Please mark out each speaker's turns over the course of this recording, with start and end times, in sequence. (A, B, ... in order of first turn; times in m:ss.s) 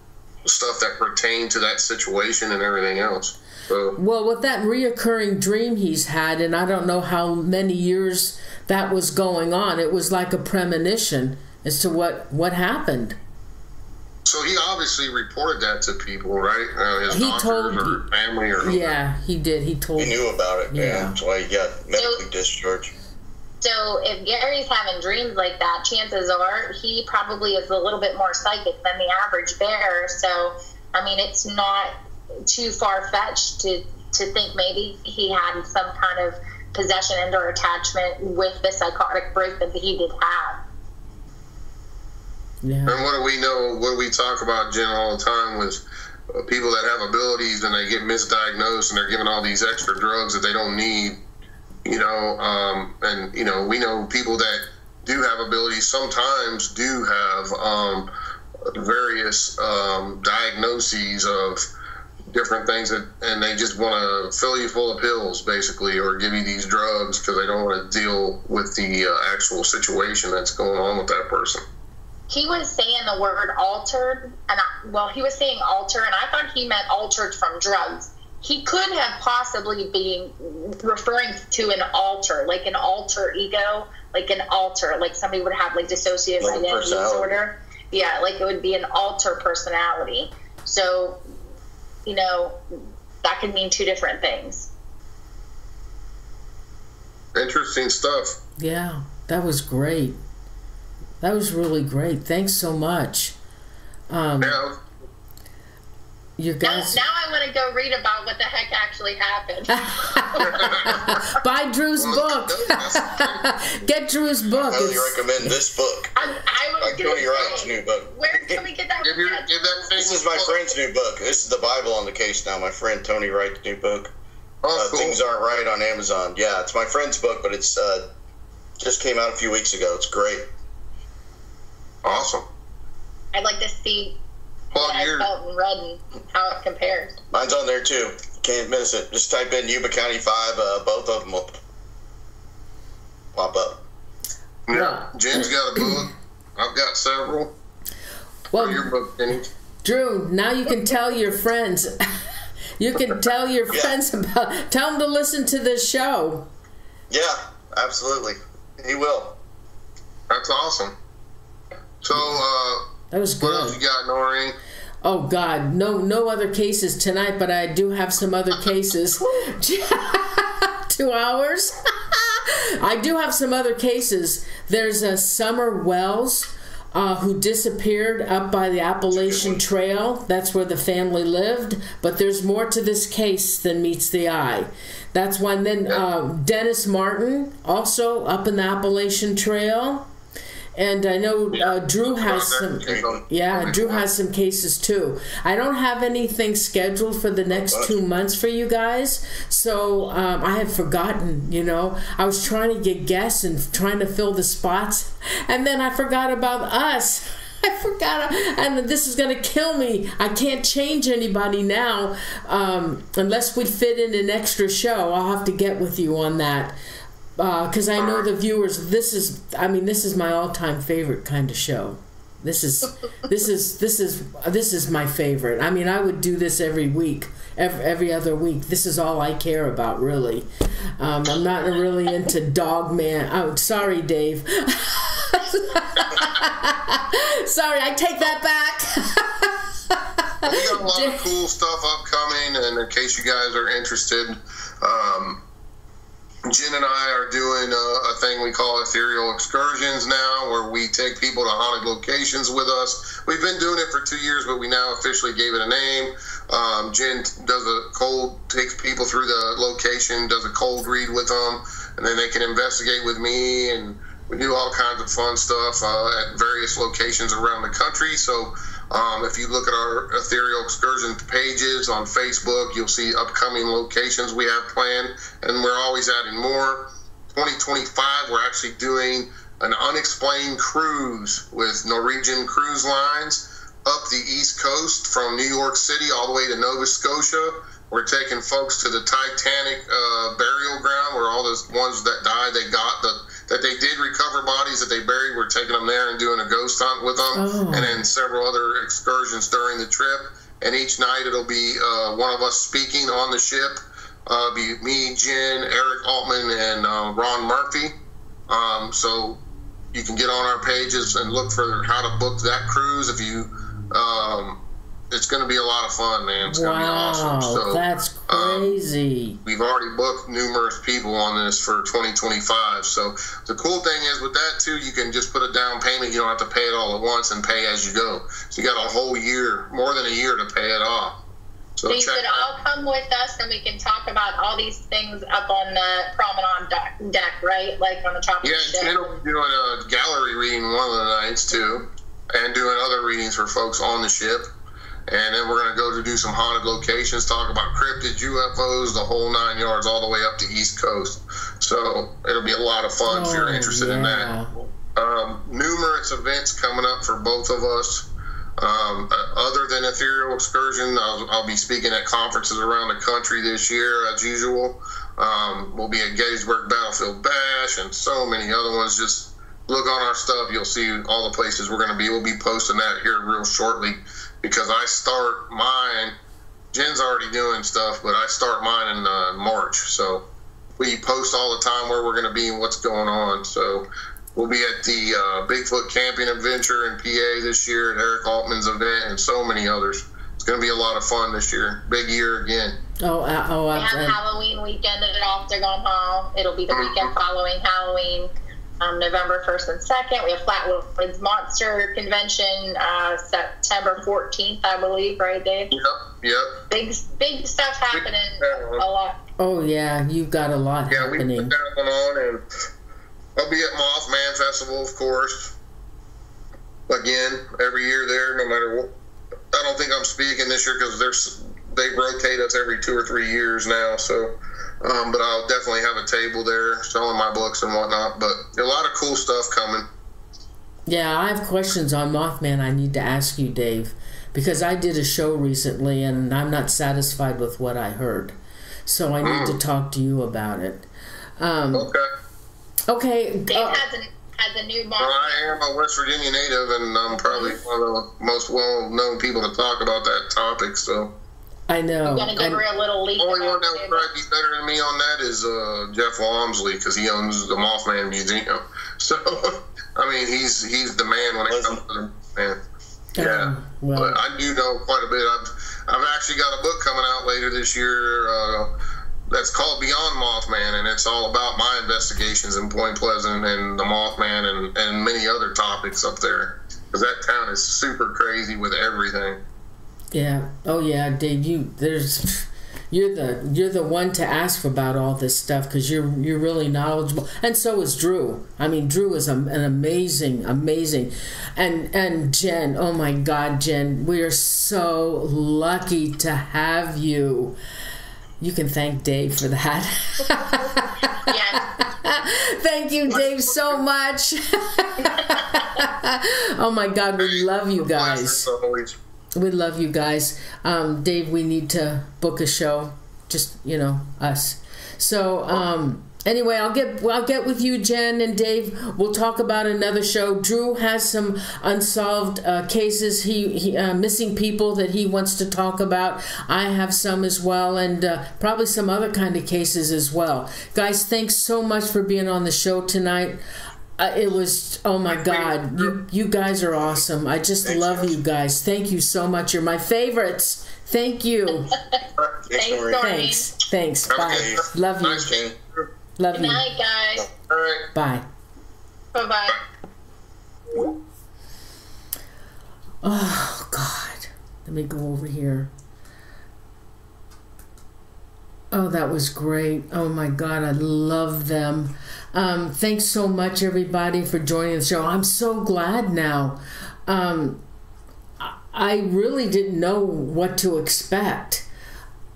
0:00.4-0:04.0 A
0:04.0-0:13.2 B
0:14.2-0:18.9 A
0:17.1-0:18.0 B
0:18.6-0:21.2 B
0:20.0-0:22.9 C
0:22.0-0:22.2 D
0:23.6-0:40.6 D
0:42.6-0:43.0 B
0:42.8-0:45.8 A
0:46.3-0:51.2 A
0:51.8-0:58.1 A
0:58.7-1:01.7 A
1:02.3-1:11.6 A
1:12.3-1:31.2 D
1:26.4-1:27.4 C
1:32.0-1:32.6 D
1:33.2-1:34.7 D
1:37.3-1:38.4 A
1:38.6-1:40.2 B
1:41.2-1:43.4 B
1:44.1-1:44.6 B
1:44.4-1:44.8 A
1:46.4-1:47.0 B
1:46.6-1:50.9 D
1:49.7-1:55.6 B
1:50.4-1:51.3 A
1:52.0-1:53.5 A
1:54.6-1:56.2 C
1:56.2-1:59.9 D
1:56.8-1:58.6 C
1:59.0-2:00.6 A
2:00.0-2:04.1 C
2:04.6-2:05.2 A
2:04.7-2:08.1 C
2:08.8-2:10.5 C
2:12.0-2:12.5 A
2:13.3-2:14.2 D
2:14.7-2:15.3 A
2:14.7-2:17.2 D
2:17.3-2:21.6 C
2:23.3-2:23.8 C
2:24.7-2:27.5 A
2:24.7-2:26.0 B
2:28.5-2:28.9 B
2:28.6-2:29.5 A
2:29.8-2:32.2 B
2:32.8-2:36.5 B
2:37.1-2:39.4 C
2:40.3-2:40.9 A
2:42.0-2:42.9 A
2:43.1-2:43.8 B
2:43.4-2:44.6 A
2:45.0-3:10.1 B
2:59.1-2:59.6 C
3:10.7-3:36.8 B
3:11.5-3:14.0 A
3:17.5-3:18.0 C
3:37.4-3:50.5 B
3:38.0-3:38.2 A
3:51.0-4:01.2 B
4:00.4-4:05.4 A
4:06.4-5:08.0 A
4:57.3-4:58.0 B
5:08.5-5:09.4 A
5:09.9-5:14.6 A
5:15.1-5:18.8 A
5:16.4-5:19.4 B
5:19.4-5:31.2 A
5:31.8-5:32.5 A
5:31.9-5:39.2 D
5:38.4-5:44.5 A
5:45.1-5:54.3 A
5:53.0-5:54.5 B
5:54.9-5:58.1 A
5:58.6-6:16.2 A
6:16.7-6:20.2 A
6:20.8-6:32.8 A
6:33.0-6:34.2 B
6:33.7-6:45.7 D
6:36.7-6:37.1 A
6:45.7-6:46.6 A
6:46.7-6:49.2 D
6:47.9-6:48.8 A
6:49.4-6:51.5 B
6:50.9-6:52.4 A
6:53.4-6:55.5 A
6:56.9-6:58.9 A
6:59.5-7:09.9 A
7:10.9-7:20.9 B
7:19.2-7:19.6 A
7:21.4-7:21.9 B
7:21.7-7:22.1 A
7:22.9-7:23.8 B
7:23.5-7:25.6 D
7:25.0-7:31.1 A
7:27.2-7:27.6 D
7:31.7-7:32.6 B
7:32.0-7:34.1 D
7:33.2-7:42.6 A
7:41.5-7:41.8 C
7:43.2-7:44.2 B
7:43.2-7:48.7 A
7:49.3-7:59.4 A
8:00.1-8:17.6 B
8:18.4-8:28.5 B
8:21.2-8:21.6 D
8:23.1-8:23.8 A
8:27.2-8:29.0 A
8:29.4-8:53.4 B
8:54.0-9:01.8 B
8:55.1-8:55.9 A
8:57.6-8:58.2 C
9:02.4-9:03.1 C
9:02.5-9:03.5 D
9:03.0-9:05.3 B
9:04.1-9:05.9 A
9:04.2-9:04.6 C
9:06.2-9:06.6 B
9:06.3-9:07.3 D
9:07.5-9:07.9 A
9:07.9-9:08.2 B
9:09.1-9:09.6 D
9:13.0-9:15.7 B
9:18.7-9:27.6 B
9:28.4-9:31.6 B